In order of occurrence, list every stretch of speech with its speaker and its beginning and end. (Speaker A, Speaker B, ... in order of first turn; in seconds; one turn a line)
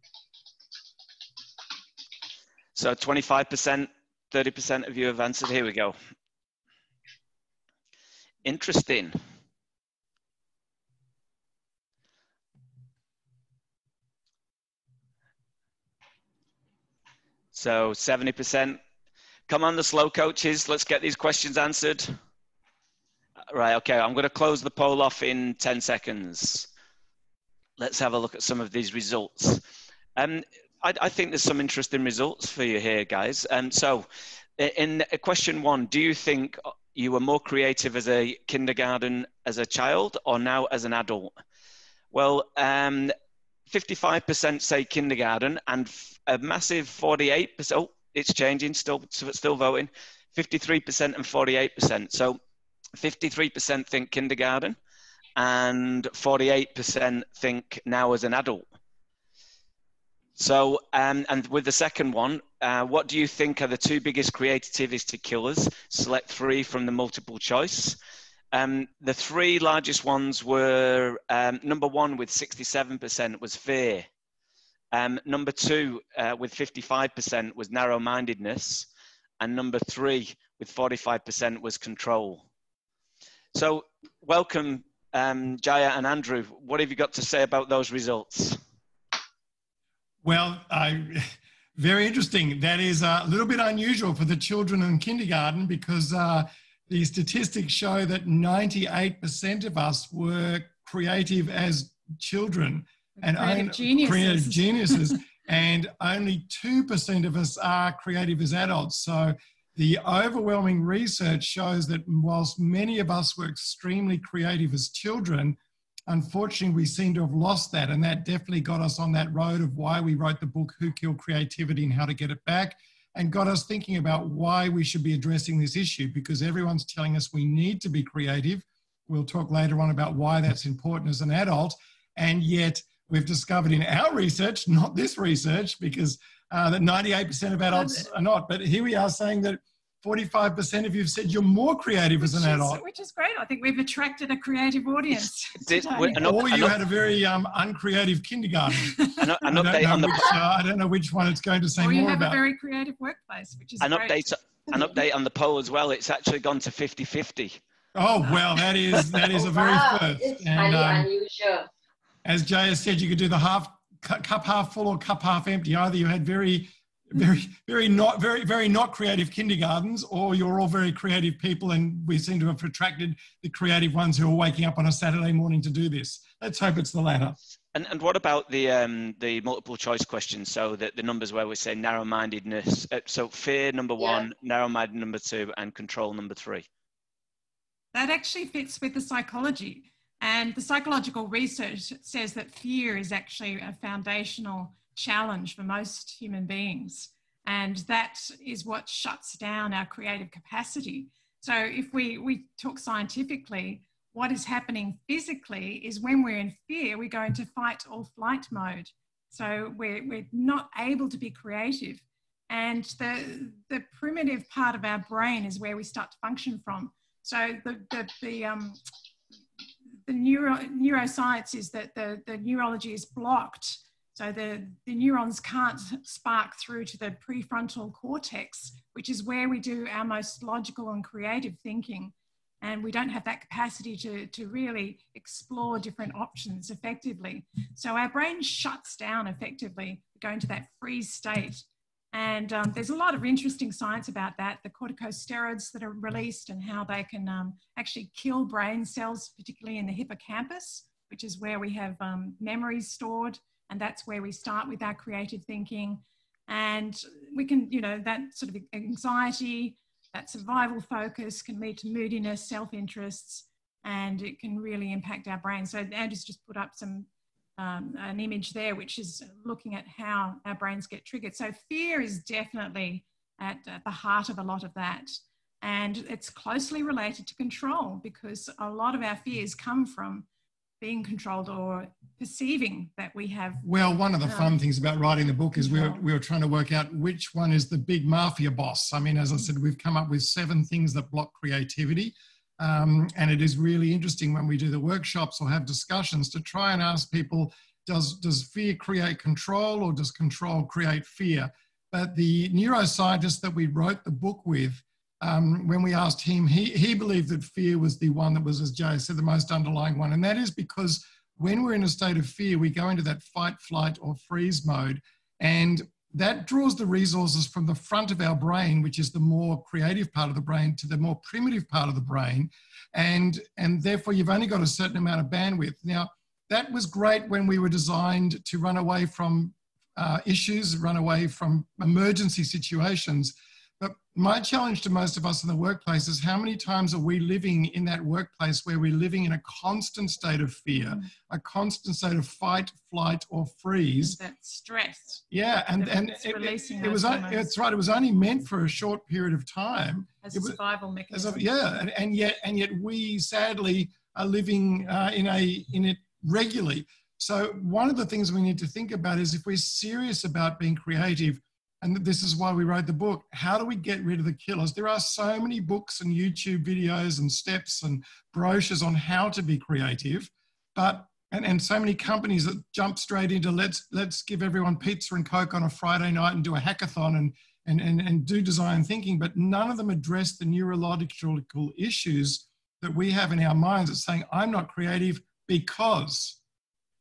Speaker A: 2.8-6.0
Speaker A: 8.4-9.2
Speaker A: 17.5-18.8
Speaker A: 19.5-22.1
Speaker A: 23.5-26.7
Speaker A: 27.8-29.6
Speaker A: 30.2-34.1
Speaker A: 34.6-41.4
Speaker A: 42.1-43.1
Speaker A: 43.7-52.4
Speaker A: 53.0-54.8
Speaker A: 55.4-58.6
Speaker A: 60.4-68.0
Speaker A: 68.5-74.1
Speaker A: 74.9-78.9
Speaker A: 79.4-82.5
Speaker A: 83.5-88.6
Speaker B: 90.2-142.8
Speaker C: 103.2-105.2
Speaker C: 137.7-138.1
Speaker C: 142.2-146.3
Speaker A: 145.6-146.8
Speaker B: 146.2-152.4
Speaker C: 148.8-149.2
Speaker A: 149.2-150.4
Speaker C: 151.8-154.3
Speaker A: 153.8-157.6
Speaker B: 157.9-161.1
Speaker D: 159.3-161.7
Speaker B: 162.2-177.4
Speaker A: 177.7-186.7
Speaker D: 184.0-184.2
Speaker C: 187.9-218.8
Speaker C: 220.1-280.3
Speaker C: 280.8-283.7
Speaker B: 283.6-344.2
Speaker C: 284.2-284.6
Speaker C: 285.6-286.0
Speaker C: 340.7-341.1
Speaker C: 344.0-345.2
Speaker B: 345.3-350.6
Speaker C: 345.8-347.5
Speaker C: 350.2-351.4
Speaker B: 351.1-386.4